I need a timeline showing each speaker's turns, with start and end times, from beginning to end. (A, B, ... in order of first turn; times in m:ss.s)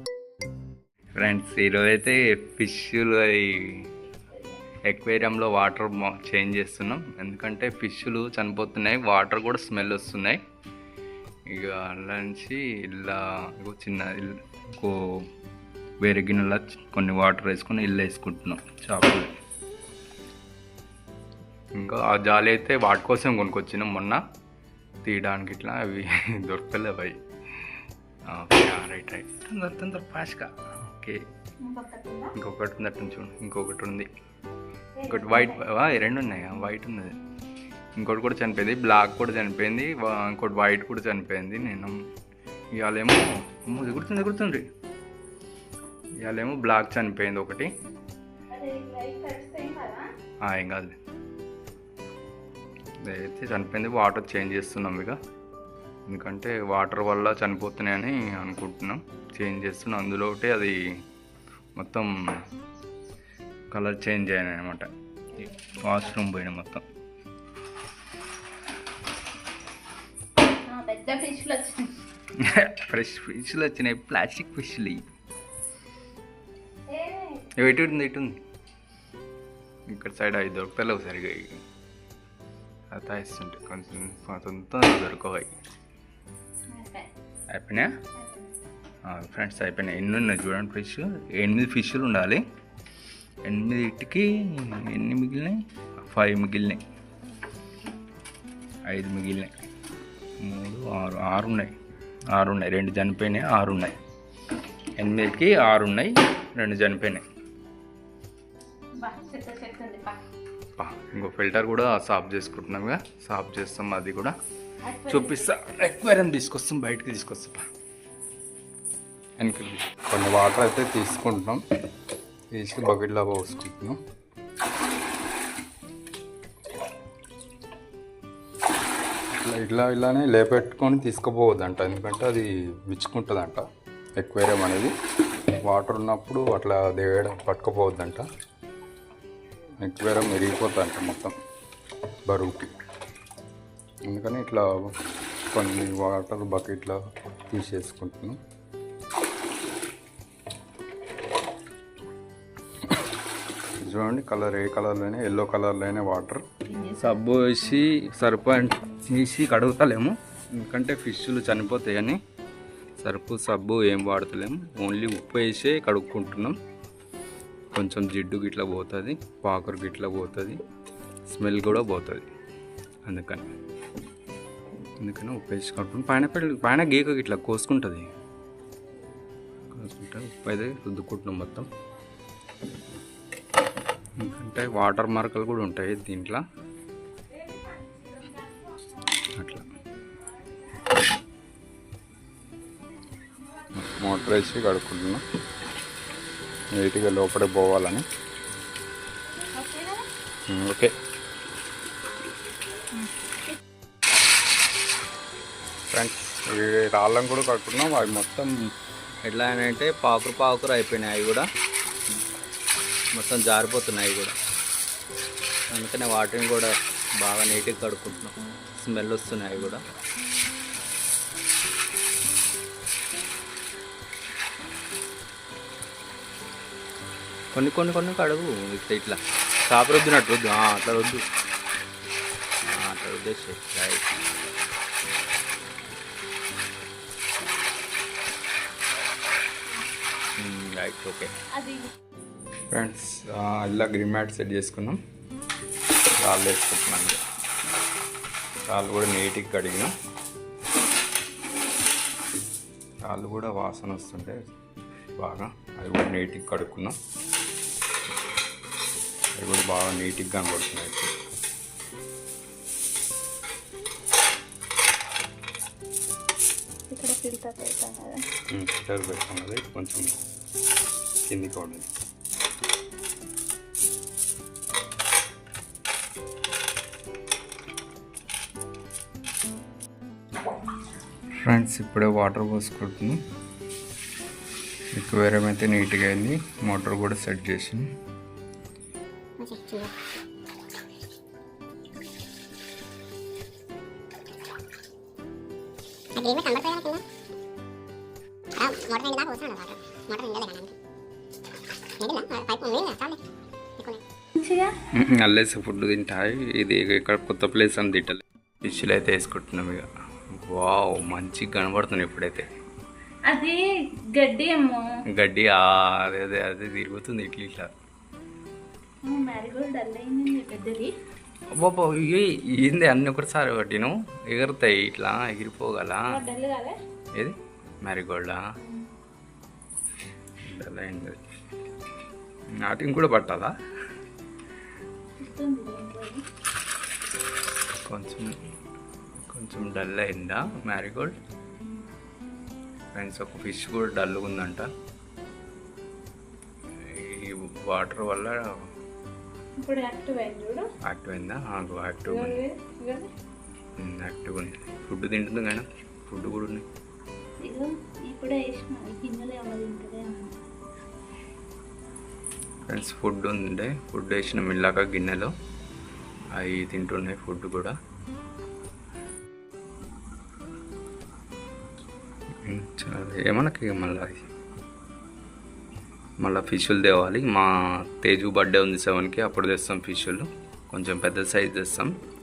0:01.2-0:03.8 A
0:04.9-0:10.4 A
0:11.5-0:15.0 A
0:16.0-0:19.3 A
0:21.8-0:24.2 A
0:25.0-0:27.2 A
0:28.3-0:31.2 A
0:31.6-0:32.3 B
0:32.3-0:34.1 A
0:35.0-0:35.6 B
0:35.1-0:37.1 A
0:38.0-0:41.9 A
0:42.7-0:44.6 A
0:46.2-0:47.7 A
0:48.5-0:50.1 B
0:50.4-0:51.0 A
0:53.0-0:55.2 A
0:56.1-1:00.8 A
1:01.8-1:02.1 A
1:03.7-1:06.8 A
1:10.6-1:11.9 B
1:12.4-1:15.1 A
1:16.9-1:17.5 B
1:17.6-1:18.4 A
1:19.9-1:21.6 A
1:22.9-1:25.5 A
1:26.7-1:27.1 B
1:27.5-1:27.9 A
1:28.2-1:28.5 B
1:29.1-1:32.4 A
1:33.4-1:36.8 A
1:38.8-1:39.5 A
1:40.4-1:41.7 A
1:42.3-1:43.9 A
1:45.0-1:47.2 A
1:49.0-1:50.2 B
1:50.8-1:54.3 A
1:54.8-1:55.5 B
1:55.1-1:57.6 A
1:59.4-2:01.6 A
2:02.5-2:04.0 A
2:09.4-2:13.6 A
2:14.2-2:14.9 A
2:15.6-2:18.2 A
2:19.8-2:21.3 A
2:22.3-2:22.7 A
2:24.1-2:24.9 A
2:25.5-2:27.0 A
2:27.5-2:28.4 A
2:33.8-2:36.4 A
2:36.6-2:37.2 B
2:37.0-2:42.2 A
2:43.0-2:46.5 A
2:47.7-2:50.6 A
2:51.3-2:52.3 A
2:53.0-2:53.5 A
2:55.0-2:58.1 A
2:59.7-3:01.7 A
3:04.2-3:06.4 A
3:09.3-3:09.7 A
3:13.7-3:15.2 A
3:16.7-3:18.0 A
3:19.5-3:20.1 B
3:20.5-3:20.9 A
3:25.9-3:28.5 A
3:29.2-3:31.4 A
3:33.1-3:34.3 A
3:35.7-3:39.8 A
3:47.5-3:51.2 A
3:52.6-3:54.1 A
4:00.4-4:01.3 A
4:01.5-4:01.9 B
4:02.7-4:05.0 A
4:06.2-4:07.2 A
4:08.7-4:09.9 A
4:13.1-4:14.4 A
4:15.2-4:17.0 A
4:19.4-4:21.1 A
4:26.9-4:28.2 B
4:28.5-4:30.2 A
4:31.3-4:31.9 A
4:41.4-4:43.2 A
4:44.9-4:47.9 A
4:49.4-4:49.9 C
4:56.1-4:57.0 C
4:58.6-5:00.7 C
5:02.0-5:03.2 C
5:04.4-5:04.7 B
5:04.9-5:12.4 A
5:13.3-5:14.9 B
5:15.1-5:17.7 A
5:19.0-5:20.9 B
5:21.5-5:26.2 A
5:26.1-5:26.8 B
5:27.2-5:28.4 A
5:30.5-5:31.2 A
5:32.6-5:33.5 A
5:35.2-5:36.2 B
5:37.8-5:38.3 A
5:39.2-5:41.2 A
5:42.9-5:44.7 A
5:46.8-5:48.4 A
5:49.6-5:50.7 B
5:50.8-5:52.4 A
5:52.1-5:53.1 B
5:53.8-5:56.6 A
5:57.4-6:00.3 B
6:02.7-6:05.3 A
6:06.3-6:07.7 A
6:12.4-6:14.2 A
6:16.2-6:21.9 A